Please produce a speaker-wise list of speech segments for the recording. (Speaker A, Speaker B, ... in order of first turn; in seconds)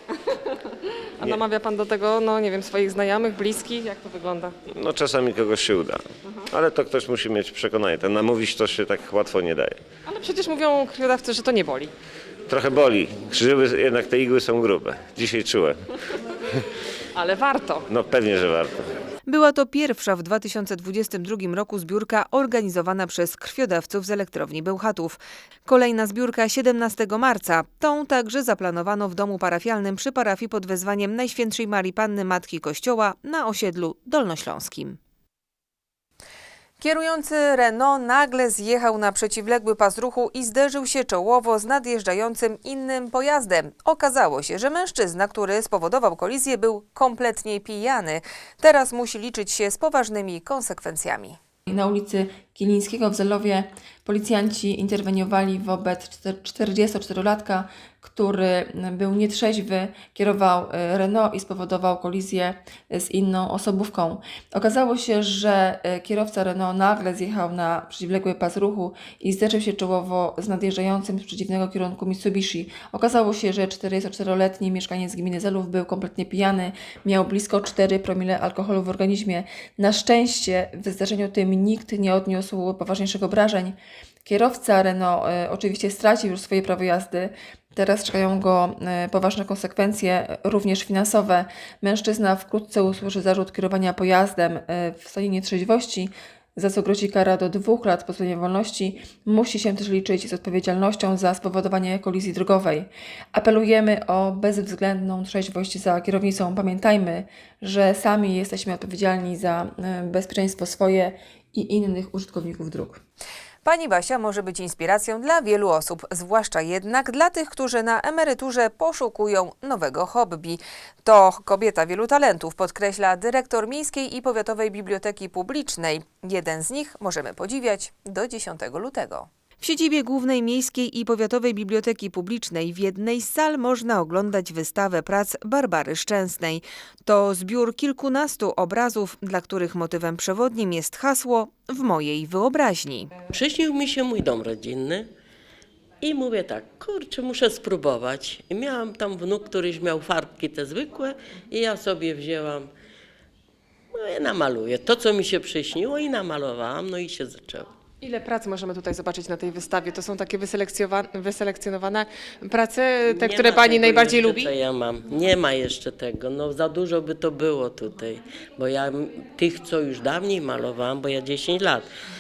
Speaker A: 0.5-4.5, 10.1-11.9, 17.1-17.9, 158.0-164.5
Speaker B: 4.7-9.8, 12.5-15.8, 17.9-18.9
Speaker C: 19.3-35.0, 36.8-51.4, 113.7-143.1
Speaker D: 51.7-113.0
Speaker E: 143.3-145.1, 146.0-152.7, 153.9-157.7, 163.1-171.9